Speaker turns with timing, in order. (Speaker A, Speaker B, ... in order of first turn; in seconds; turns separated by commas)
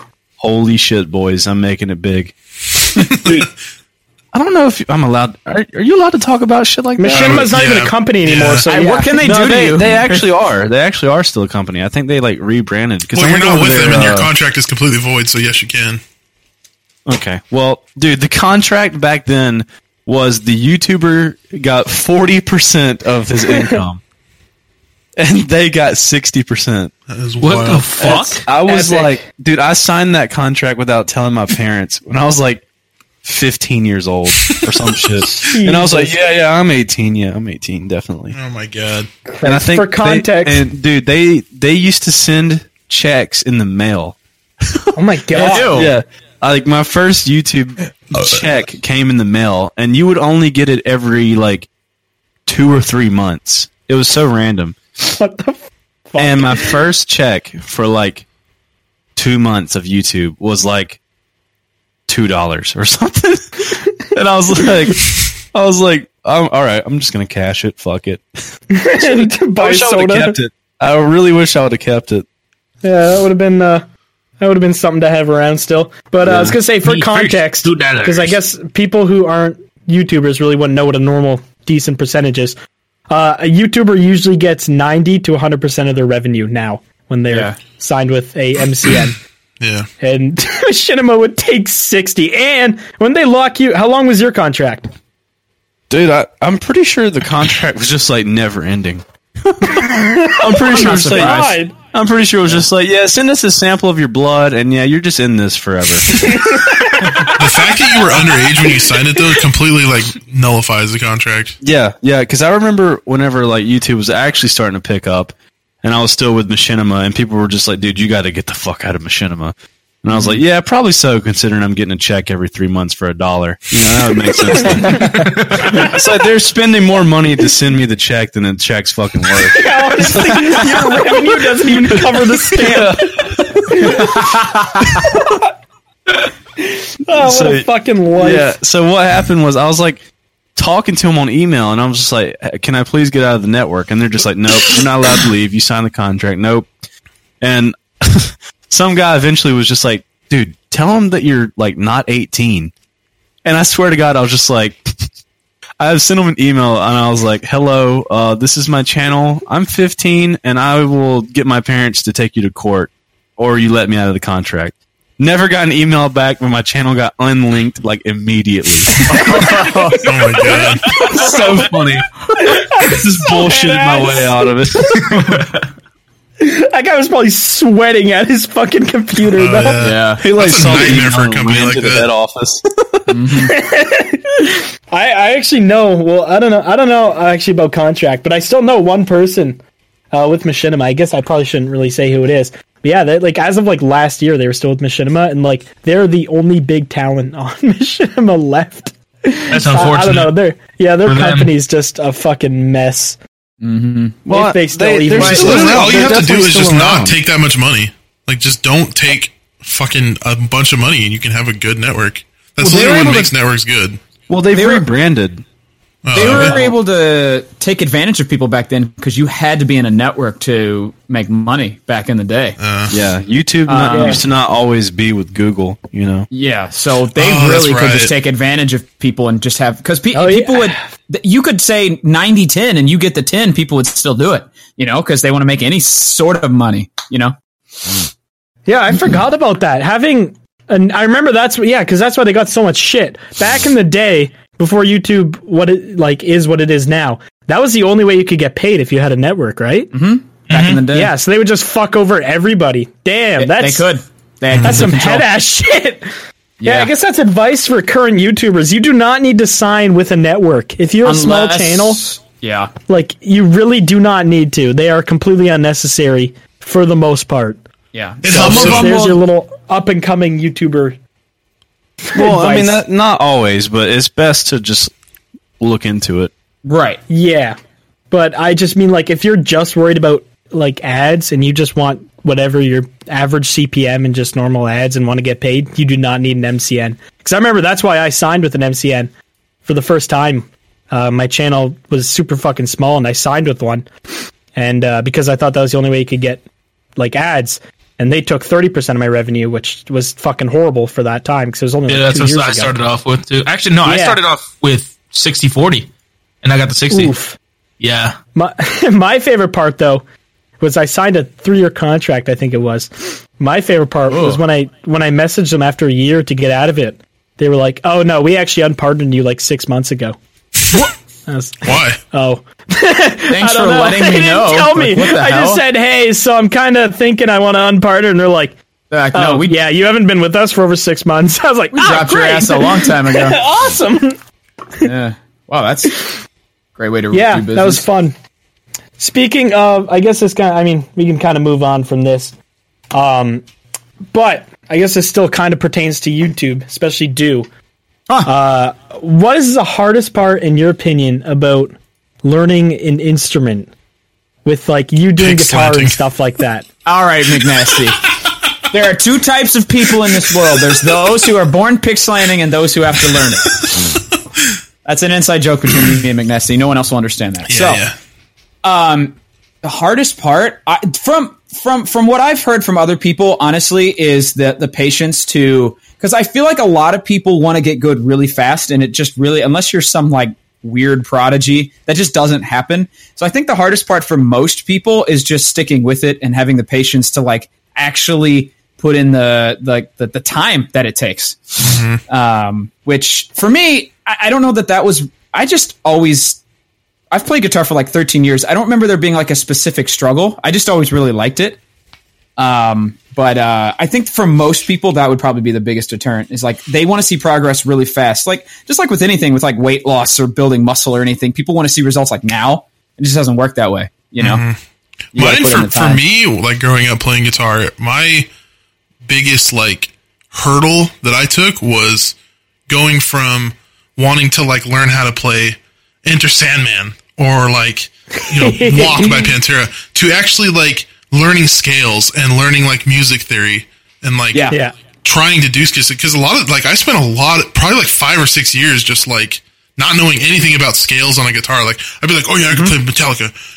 Speaker A: 0.4-2.3, Speaker A: 3.0-3.5, Speaker B: 3.1-3.4, Speaker A: 4.3-7.5, Speaker C: 7.0-9.6, Speaker B: 7.1-8.7, Speaker D: 8.6-10.3, Speaker A: 9.2-14.3, Speaker B: 13.1-16.0, Speaker A: 17.1-24.0, Speaker A: 25.2-26.9, Speaker B: 27.1-28.1, Speaker E: 27.4-28.5, Speaker A: 28.0-32.6, Speaker C: 28.6-29.1, Speaker A: 33.2-38.4, Speaker C: 35.2-36.2, Speaker B: 38.3-39.1, Speaker C: 39.2-40.6, Speaker A: 39.4-44.1, Speaker A: 44.7-51.7, Speaker C: 44.9-45.9, Speaker D: 45.3-45.9, Speaker A: 52.5-54.8, Speaker C: 55.0-56.8, Speaker A: 56.2-58.2, Speaker A: 59.1-61.0, Speaker A: 62.1-68.2, Speaker C: 68.7-70.4, Speaker A: 69.0-72.2, Speaker C: 72.8-73.8, Speaker C: 74.4-82.5, Speaker A: 76.2-76.6, Speaker E: 76.8-78.3, Speaker C: 83.1-89.2, Speaker D: 87.3-87.6, Speaker B: 89.6-89.9, Speaker C: 90.0-94.9, Speaker A: 95.9-106.4, Speaker C: 99.8-101.7, Speaker D: 100.7-101.5, Speaker C: 106.1-107.0, Speaker B: 107.3-111.6, Speaker A: 111.6-134.0, Speaker D: 120.1-120.4, Speaker E: 125.2-125.7, Speaker C: 129.4-134.4, Speaker D: 134.0-134.9, Speaker C: 135.0-135.4, Speaker C: 136.6-138.6, Speaker A: 137.1-140.0, Speaker A: 140.6-146.7, Speaker A: 147.4-152.7, Speaker A: 153.4-154.9, Speaker A: 155.8-169.0, Speaker D: 169.1-170.1, Speaker C: 169.1-170.0, Speaker B: 170.0-170.9, Speaker C: 170.9-171.7, Speaker E: 170.9-171.7, Speaker A: 171.1-172.1, Speaker C: 172.4-174.5, Speaker A: 172.8-175.1, Speaker E: 175.1-175.4, Speaker C: 176.4-179.9, Speaker B: 179.3-182.1, Speaker D: 179.8-180.2, Speaker A: 180.2-182.6, Speaker D: 183.1-183.5, Speaker C: 183.3-189.6, Speaker C: 190.1-203.2, Speaker E: 199.5-200.3, Speaker E: 201.0-201.5, Speaker D: 203.6-204.2, Speaker A: 204.2-207.2, Speaker C: 204.3-206.1, Speaker D: 205.1-206.2, Speaker B: 205.3-214.0, Speaker A: 212.6-213.3, Speaker A: 214.3-215.4, Speaker D: 214.5-214.9, Speaker B: 216.0-216.6, Speaker D: 216.1-222.6, Speaker A: 216.2-216.7, Speaker B: 222.6-222.9, Speaker A: 222.9-226.3, Speaker D: 223.7-224.2, Speaker C: 223.9-224.2, Speaker D: 226.3-237.3, Speaker B: 227.2-228.1, Speaker C: 230.1-230.8, Speaker C: 238.7-249.9, Speaker D: 249.9-251.1, Speaker E: 250.5-250.8, Speaker C: 250.9-253.9, Speaker D: 253.4-255.3, Speaker B: 254.5-254.8, Speaker C: 254.6-256.1, Speaker D: 256.6-256.9, Speaker C: 256.6-262.0, Speaker D: 261.0-262.7, Speaker C: 262.9-267.6, Speaker D: 267.9-269.2, Speaker B: 268.2-268.9, Speaker C: 268.3-271.0, Speaker C: 272.0-272.8, Speaker A: 272.1-274.9, Speaker A: 275.6-276.3, Speaker D: 276.6-277.0, Speaker C: 277.1-277.6, Speaker C: 278.1-289.1, Speaker C: 289.6-293.9, Speaker C: 294.5-296.4, Speaker C: 296.9-302.8, Speaker E: 301.9-305.9, Speaker C: 303.8-304.2, Speaker E: 306.4-307.1, Speaker C: 306.9-307.4, Speaker E: 307.8-308.2, Speaker C: 308.3-310.0, Speaker C: 310.6-320.1, Speaker D: 314.1-314.4, Speaker C: 320.7-328.6, Speaker B: 321.6-322.0, Speaker D: 323.3-325.6, Speaker D: 328.9-329.6, Speaker C: 329.1-334.2, Speaker D: 331.7-333.4, Speaker D: 334.8-336.1, Speaker D: 336.8-337.9, Speaker C: 337.1-338.1, Speaker C: 339.0-342.3, Speaker C: 342.9-343.4, Speaker C: 344.1-347.5, Speaker C: 348.2-353.7, Speaker C: 354.4-356.6, Speaker B: 355.2-356.0, Speaker D: 356.9-358.0, Speaker D: 358.7-363.7, Speaker B: 363.6-363.9, Speaker D: 364.8-367.8, Speaker B: 367.5-367.9, Speaker D: 368.6-396.4, Speaker B: 391.6-392.0, Speaker D: 397.1-401.6, Speaker D: 402.4-414.4, Speaker B: 414.2-414.6, Speaker D: 415.1-416.0, Speaker B: 415.1-418.3, Speaker B: 419.0-422.1, Speaker B: 422.7-443.3, Speaker C: 428.4-429.4, Speaker D: 442.5-442.8